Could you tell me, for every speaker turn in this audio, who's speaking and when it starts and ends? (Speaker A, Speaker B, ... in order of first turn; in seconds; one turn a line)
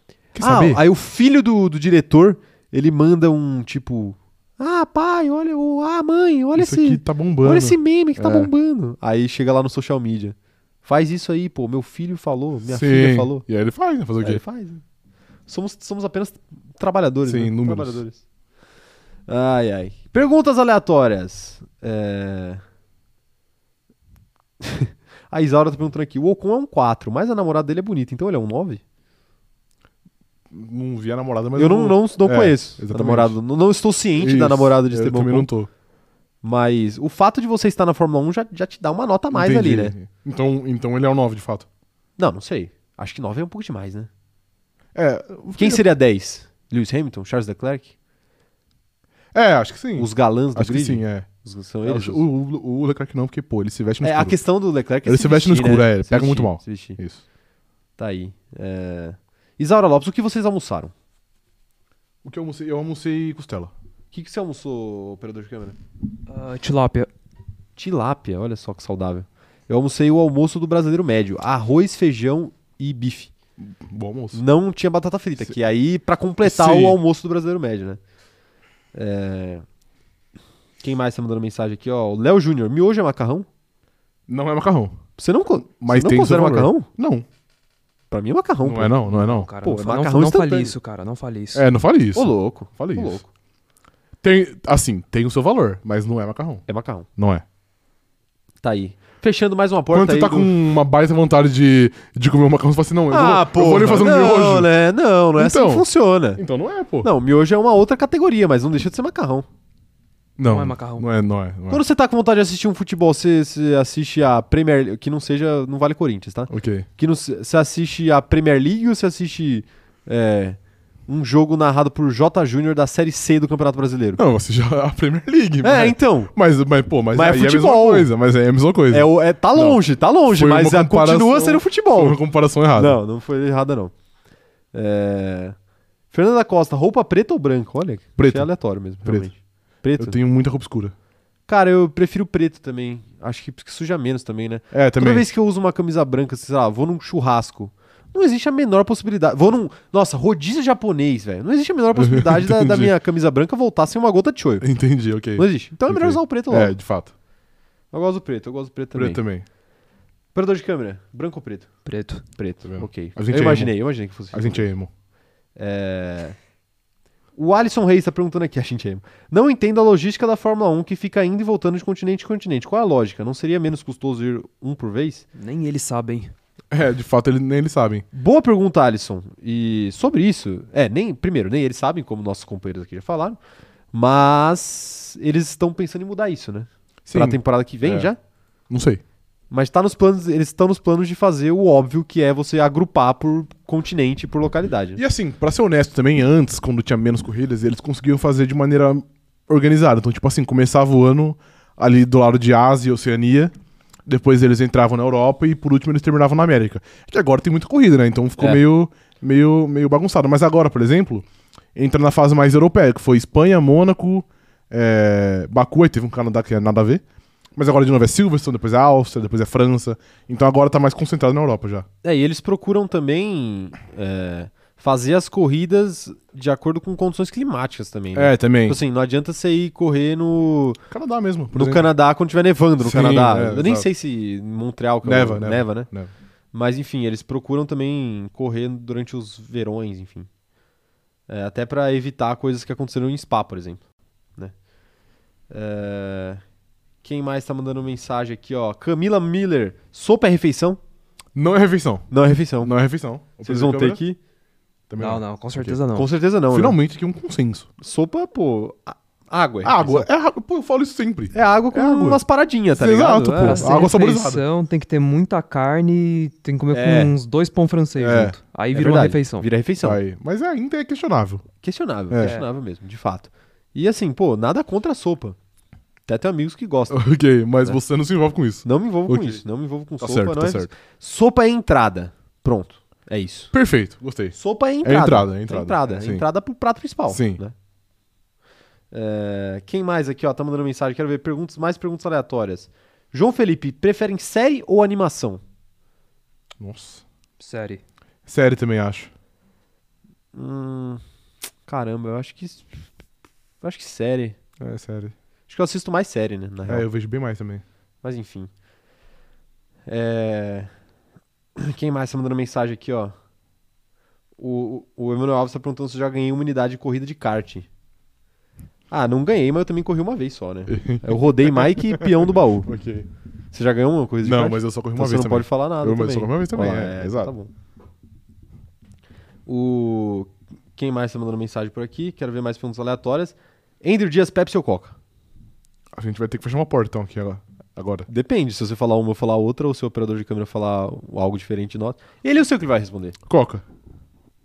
Speaker A: 0.3-0.8
Speaker B: 0.4-13.4
Speaker A: 6.5-8.5
Speaker A: 12.7-14.4
Speaker B: 14.2-14.8
Speaker B: 15.5-18.2
Speaker A: 17.2-18.0
Speaker B: 19.3-22.6
Speaker B: 24.6-28.8
Speaker A: 30.5-33.4
Speaker B: 31.5-35.5
Speaker A: 34.2-35.7
Speaker B: 36.4-39.9
Speaker A: 39.3-41.7
Speaker B: 42.2-44.1
Speaker A: 44.9-45.8
Speaker B: 45.6-47.9
Speaker A: 49.3-51.3
Speaker B: 50.0-52.2
Speaker A: 51.8-54.4
Speaker B: 54.0-57.0
Speaker A: 55.0-57.2
Speaker B: 58.0-60.9
Speaker A: 62.2-63.7
Speaker B: 64.1-65.8
Speaker C: 66.3-67.1
Speaker B: 67.8-73.3
Speaker A: 73.6-74.4
Speaker B: 74.3-78.0
Speaker A: 76.4-77.0
Speaker B: 78.9-79.6
Speaker B: 80.8-83.5
Speaker A: 84.3-85.0
Speaker B: 85.2-86.9
Speaker A: 85.8-87.2
Speaker B: 88.1-89.0
Speaker A: 88.6-89.5
Speaker C: 89.1-91.7
Speaker B: 89.6-90.7
Speaker A: 91.5-93.2
Speaker B: 92.1-93.3
Speaker A: 94.2-96.6
Speaker B: 96.7-97.1
Speaker A: 97.2-97.4
Speaker B: 98.6-100.5
Speaker A: 99.9-104.7
Speaker B: 103.1-106.4
Speaker A: 105.4-105.8
Speaker A: 106.4-107.1
Speaker B: 107.0-109.5
Speaker A: 110.4-111.8
Speaker C: 110.5-111.0
Speaker B: 111.7-124.2
Speaker A: 116.5-116.9
Speaker A: 124.2-133.0
Speaker B: 125.6-126.3
Speaker B: 127.1-128.1
Speaker B: 128.9-132.2
Speaker B: 132.7-133.9
Speaker B: 134.7-135.5
Speaker B: 136.1-140.2
Speaker A: 138.2-138.5
Speaker A: 139.0-139.3
Speaker A: 140.0-140.9
Speaker B: 141.5-154.7
Speaker A: 144.7-145.2
Speaker A: 151.9-152.9
Speaker A: 154.6-157.1
Speaker B: 155.3-156.7
Speaker B: 157.9-159.2
Speaker A: 158.9-159.4
Speaker B: 160.3-161.7
Speaker C: 161.8-162.2
Speaker B: 162.3-164.7
Speaker A: 162.6-163.7
Speaker A: 164.3-164.9
Speaker B: 165.6-166.4
Speaker B: 167.3-175.2
Speaker C: 175.3-176.3
Speaker A: 176.7-178.0
Speaker B: 178.1-183.4
Speaker B: 183.9-188.2
Speaker A: 187.1-188.1
Speaker A: 188.7-189.0
Speaker B: 189.5-195.0
Speaker A: 194.9-203.5
Speaker A: 204.1-217.0
Speaker A: 217.6-221.8
Speaker B: 222.0-230.8
Speaker A: 228.1-228.8
Speaker A: 230.9-231.9
Speaker B: 231.5-235.9
Speaker A: 232.8-233.9
Speaker A: 235.0-236.1
Speaker B: 236.5-240.3
Speaker B: 241.3-243.8
Speaker B: 245.5-246.4
Speaker B: 247.0-250.8
Speaker A: 251.3-254.0
Speaker B: 252.1-252.7
Speaker B: 253.4-254.2
Speaker A: 254.9-255.8
Speaker C: 255.0-256.1
Speaker B: 255.9-256.8
Speaker A: 256.5-257.7
Speaker B: 257.8-260.1
Speaker A: 259.6-262.2
Speaker B: 261.3-263.7
Speaker A: 262.7-264.4
Speaker C: 263.3-269.5
Speaker B: 266.7-267.1
Speaker A: 268.0-268.4
Speaker B: 268.7-270.0
Speaker A: 269.8-271.4
Speaker B: 271.6-275.4
Speaker A: 272.1-272.4
Speaker C: 272.2-272.4
Speaker B: 276.1-277.0
Speaker A: 276.9-279.4
Speaker B: 278.6-283.5
Speaker A: 280.0-280.7
Speaker A: 283.5-286.2
Speaker B: 284.3-287.5
Speaker A: 287.1-287.4
Speaker B: 288.9-295.4
Speaker A: 296.6-297.0
Speaker C: 297.4-297.8
Speaker A: 298.2-299.1
Speaker B: 300.3-301.0
Speaker B: 301.7-302.7
Speaker B: 303.6-304.4
Speaker A: 304.6-305.1
Speaker B: 305.5-306.9
Speaker A: 306.7-307.6
Speaker B: 308.0-308.5
Speaker B: 309.9-310.7
Speaker B: 311.6-313.1
Speaker B: 314.4-317.7
Speaker B: 318.9-322.7
Speaker A: 320.7-323.1
Speaker B: 323.5-327.5
Speaker A: 324.2-327.3
Speaker B: 329.5-334.9
Speaker A: 335.9-338.1
Speaker B: 338.1-343.2
Speaker A: 343.3-343.6